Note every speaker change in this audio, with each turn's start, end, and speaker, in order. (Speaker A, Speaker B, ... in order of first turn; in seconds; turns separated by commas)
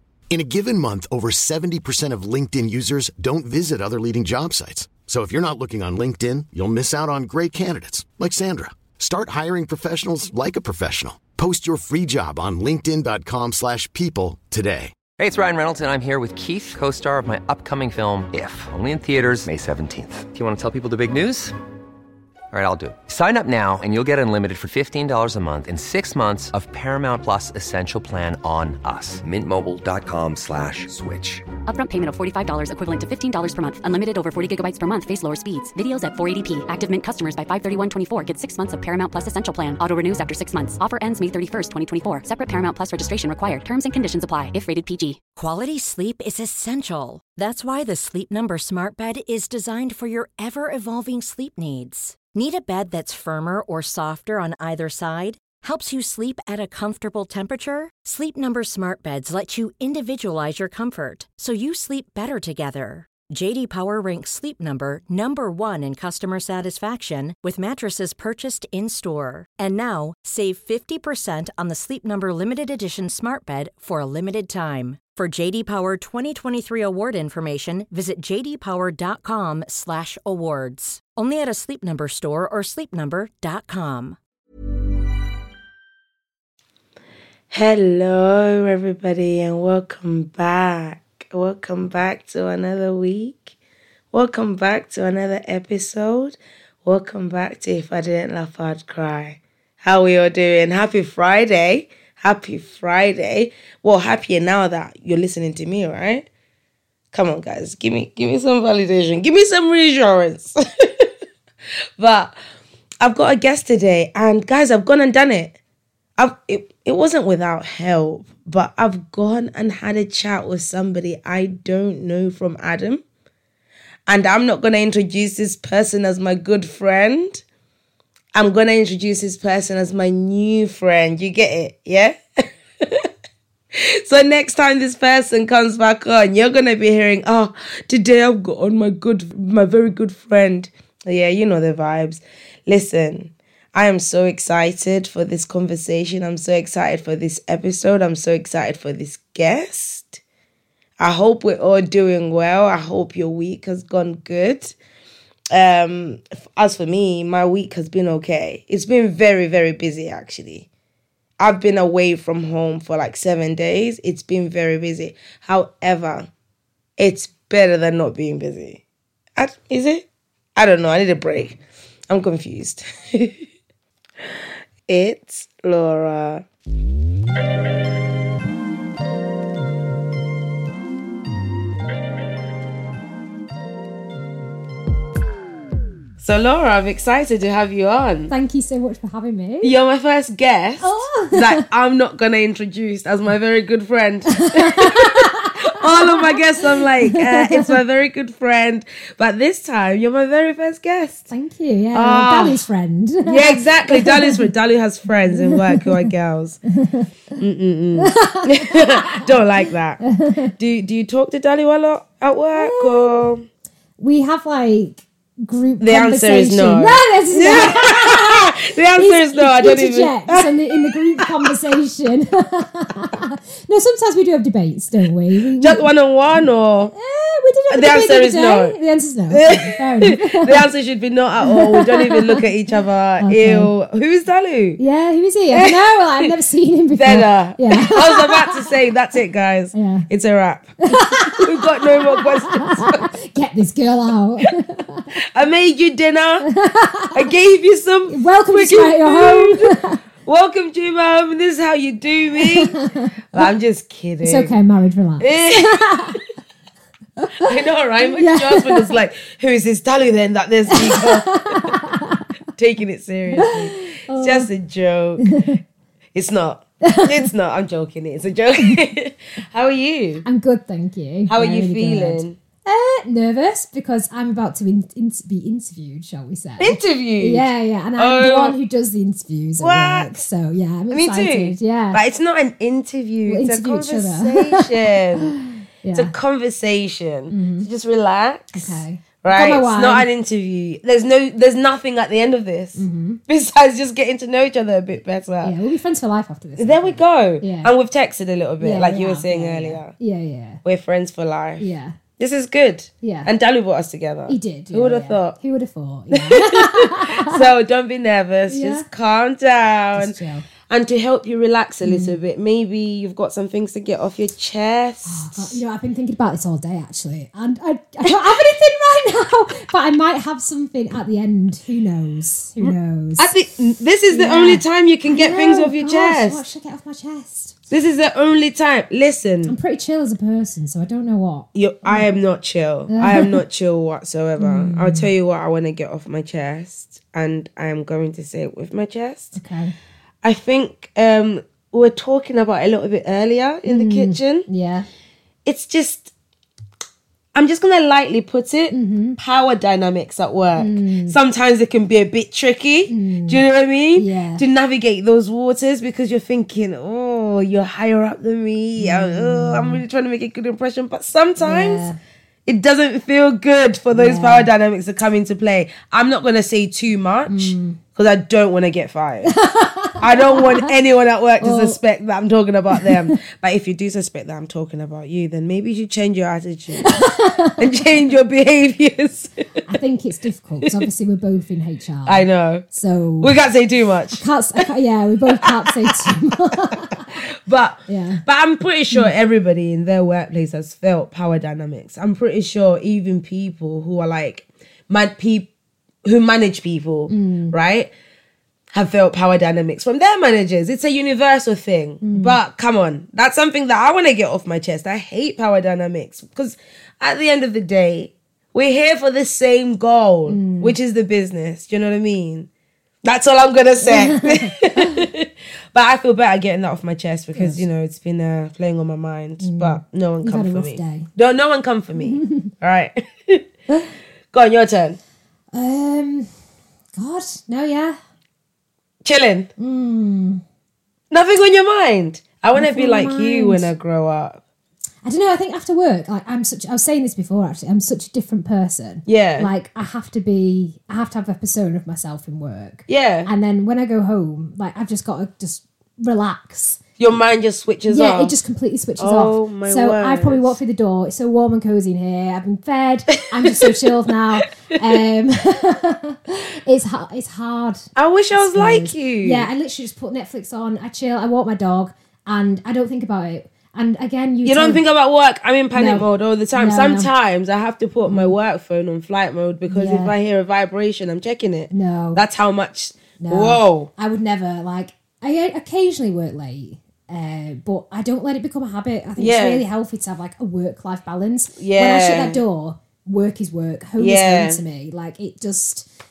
Speaker A: 0.3-14.9, Speaker B: 15.2-21.5, Speaker B: 22.5-31.5, Speaker C: 31.6-45.2, Speaker D: 45.4-84.2, Speaker E: 87.5-93.5, Speaker E: 94.1-106.2, Speaker E: 107.1-111.1, Speaker E: 112.0-112.3, Speaker E: 113.0-115.5, Speaker E: 116.2-123.0, Speaker E: 124.1-127.4, Speaker E: 128.3-132.2, Speaker E: 132.8-133.1, Speaker E: 133.7-150.2, Speaker E: 151.0-154.7, Speaker E: 155.5-160.7, Speaker E: 161.4-166.3, Speaker E: 167.0-168.8, Speaker E: 169.4-170.0, Speaker E: 170.6-171.6, Speaker E: 172.1-173.4, Speaker E: 174.9-176.4, Speaker E: 186.2-188.3, Speaker F: 188.3-189.7, Speaker E: 189.6-201.3, Speaker F: 190.8-191.6, Speaker F: 194.4-196.4, Speaker F: 197.1-197.7, Speaker F: 201.3-204.4, Speaker E: 201.9-202.6, Speaker E: 203.2-206.6, Speaker F: 205.3-206.0, Speaker F: 206.7-207.1, Speaker E: 207.4-210.0, Speaker F: 208.0-209.2, Speaker F: 210.0-210.5, Speaker E: 210.6-213.4, Speaker F: 212.6-213.1, Speaker F: 214.0-225.8, Speaker E: 215.8-221.3, Speaker E: 225.6-226.9, Speaker F: 226.9-230.6, Speaker E: 227.7-228.8, Speaker E: 229.3-234.8, Speaker F: 231.5-232.4, Speaker F: 233.2-233.7, Speaker F: 234.8-238.5, Speaker E: 235.5-236.3, Speaker E: 236.9-243.1, Speaker F: 239.7-240.1, Speaker F: 240.8-245.1, Speaker E: 245.3-246.5, Speaker F: 246.4-247.3, Speaker E: 247.1-252.8, Speaker F: 248.1-250.0, Speaker F: 252.4-253.5, Speaker E: 253.3-254.5, Speaker F: 254.2-256.2, Speaker E: 255.2-256.2, Speaker E: 257.4-261.7, Speaker F: 258.2-258.9, Speaker F: 260.7-262.2, Speaker E: 262.6-265.3, Speaker F: 263.3-264.5, Speaker F: 265.2-265.6, Speaker E: 266.1-270.2, Speaker F: 266.8-267.3, Speaker F: 270.2-282.0, Speaker E: 271.3-272.4, Speaker E: 276.6-278.5, Speaker E: 279.6-280.2, Speaker E: 280.9-285.3, Speaker F: 283.3-286.1, Speaker E: 285.9-295.5, Speaker F: 287.3-287.7, Speaker F: 288.5-290.1, Speaker F: 292.8-293.2, Speaker F: 295.4-297.7, Speaker E: 296.6-299.9, Speaker F: 298.6-300.6, Speaker E: 300.6-301.6, Speaker F: 301.6-302.0, Speaker E: 302.2-305.4, Speaker F: 303.0-303.3, Speaker F: 304.3-307.4, Speaker E: 306.1-310.1, Speaker F: 308.5-308.9, Speaker F: 309.9-310.5, Speaker E: 310.7-315.6, Speaker F: 311.8-312.1, Speaker F: 315.1-323.3, Speaker E: 322.6-326.4, Speaker F: 324.1-327.5, Speaker E: 327.7-329.5, Speaker F: 329.4-332.1, Speaker E: 331.5-339.4, Speaker F: 332.9-333.4, Speaker F: 334.4-335.1, Speaker F: 339.3-339.7, Speaker E: 340.2-344.5, Speaker F: 343.6-344.9, Speaker E: 345.4-346.1, Speaker E: 347.3-361.9, Speaker F: 348.7-349.2, Speaker F: 350.6-351.2, Speaker F: 352.9-353.4, Speaker F: 354.0-354.4, Speaker F: 358.8-359.8, Speaker F: 361.4-362.0, Speaker E: 362.5-369.3, Speaker F: 363.9-364.5, Speaker F: 367.3-367.8, Speaker F: 369.3-370.7, Speaker E: 370.0-377.0, Speaker F: 371.4-371.8, Speaker F: 372.8-373.1, Speaker F: 376.8-377.6, Speaker E: 377.6-379.3, Speaker F: 379.7-383.3, Speaker E: 382.1-382.6, Speaker E: 383.2-384.2, Speaker F: 384.2-387.2, Speaker E: 385.2-386.7, Speaker E: 387.5-395.5, Speaker F: 387.9-388.2, Speaker E: 396.0-397.9, Speaker F: 397.1-397.6, Speaker E: 398.7-412.5, Speaker F: 402.0-402.4, Speaker F: 410.3-410.8, Speaker E: 413.0-423.4, Speaker F: 413.8-415.0, Speaker F: 417.3-417.6, Speaker F: 419.4-421.1, Speaker F: 422.0-422.5, Speaker E: 424.3-425.0, Speaker F: 425.5-426.3, Speaker F: 426.9-428.0, Speaker E: 429.0-429.5, Speaker F: 429.6-430.4, Speaker E: 431.1-434.4, Speaker F: 432.5-433.7, Speaker F: 435.0-446.8, Speaker E: 439.1-439.5, Speaker E: 442.9-443.3, Speaker E: 447.0-448.3, Speaker F: 447.9-464.8, Speaker E: 449.0-450.5, Speaker E: 453.4-453.8, Speaker E: 457.9-459.5, Speaker E: 464.4-473.9, Speaker F: 465.7-467.1, Speaker F: 468.1-468.3, Speaker F: 469.7-470.1, Speaker F: 471.7-472.2, Speaker F: 473.2-485.9, Speaker E: 479.2-479.6, Speaker E: 481.6-482.4, Speaker E: 484.0-484.6